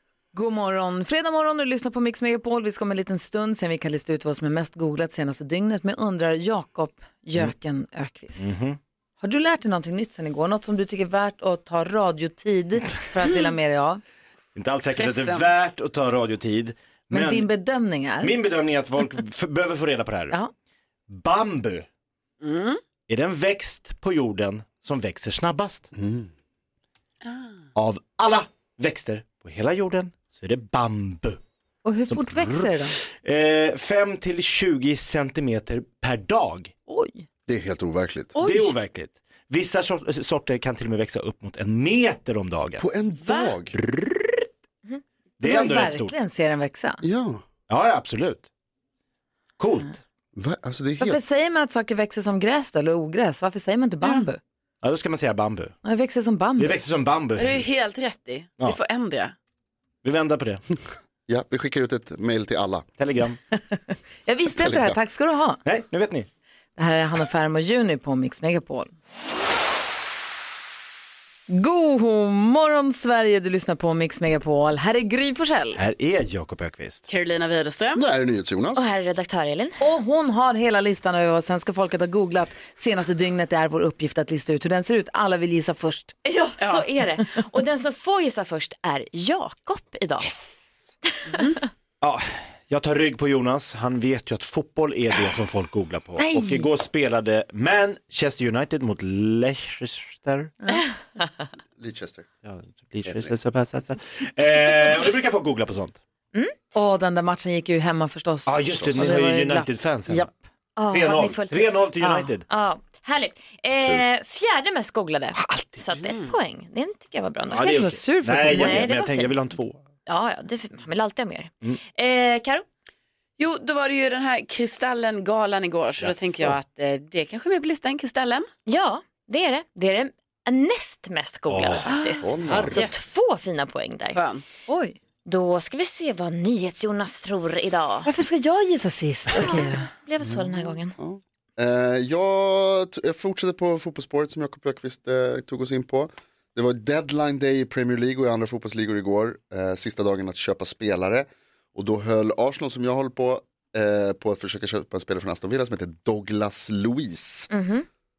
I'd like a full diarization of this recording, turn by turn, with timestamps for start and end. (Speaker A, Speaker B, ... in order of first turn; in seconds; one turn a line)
Speaker A: 0.3-8.5
Speaker B: 8.4-8.8
Speaker A: 9.2-14.0
Speaker B: 14.5-17.5
Speaker C: 14.9-15.5
Speaker A: 17.1-18.3
Speaker B: 18.2-20.4
Speaker B: 21.1-21.9
Speaker C: 22.4-22.8
Speaker B: 23.1-25.9
Speaker D: 25.9-26.3
Speaker C: 27.2-27.5
Speaker B: 27.8-31.4
Speaker A: 31.8-33.0
Speaker B: 32.1-36.7
Speaker A: 36.9-37.2
Speaker D: 37.5-38.3
Speaker C: 38.4-38.8
Speaker B: 38.4-42.8
Speaker D: 42.8-43.8
Speaker C: 43.3-43.5
Speaker B: 43.7-44.5
Speaker B: 45.4-46.1
Speaker A: 45.4-47.0
Speaker D: 47.0-47.4
Speaker B: 47.7-48.5
Speaker B: 49.6-50.0
Speaker D: 50.3-51.2
Speaker A: 51.0-54.4
Speaker B: 54.8-55.8
Speaker A: 55.8-56.8
Speaker B: 56.6-57.6
Speaker C: 57.4-59.3
Speaker B: 60.0-60.6
Speaker D: 61.3-62.9
Speaker B: 63.0-63.4
Speaker A: 63.7-65.6
Speaker D: 64.6-64.9
Speaker B: 65.6-66.3
Speaker A: 66.8-68.9
Speaker A: 71.5-75.8
Speaker B: 75.8-77.1
Speaker C: 77.1-78.0
Speaker D: 77.9-78.9
Speaker E: 78.8-79.8
Speaker A: 79.8-86.1
Speaker E: 86.2-90.4
Speaker C: 86.6-86.8
Speaker C: 91.3-91.6
Speaker B: 92.0-100.5
Speaker A: 96.2-96.7
Speaker D: 101.8-102.3
Speaker B: 102.4-106.0
Speaker D: 103.0-103.3
Speaker A: 106.7-110.4
Speaker B: 108.5-110.3
Speaker E: 110.8-111.9
Speaker B: 110.9-112.4
Speaker A: 112.0-112.3
Speaker E: 112.5-117.7
Speaker B: 117.5-119.8
Speaker A: 117.5-118.9
Speaker E: 118.5-119.3
Speaker E: 120.0-122.6
Speaker C: 123.4-128.5
Speaker B: 126.0-126.5
Speaker E: 128.7-134.2
Speaker B: 131.5-132.8
Speaker D: 132.2-132.8
Speaker C: 132.7-133.2
Speaker C: 134.1-134.4
Speaker A: 134.7-135.0
Speaker E: 135.2-138.1
Speaker A: 138.0-139.9
Speaker E: 139.3-140.9
Speaker D: 140.2-157.5
Speaker E: 157.5-157.8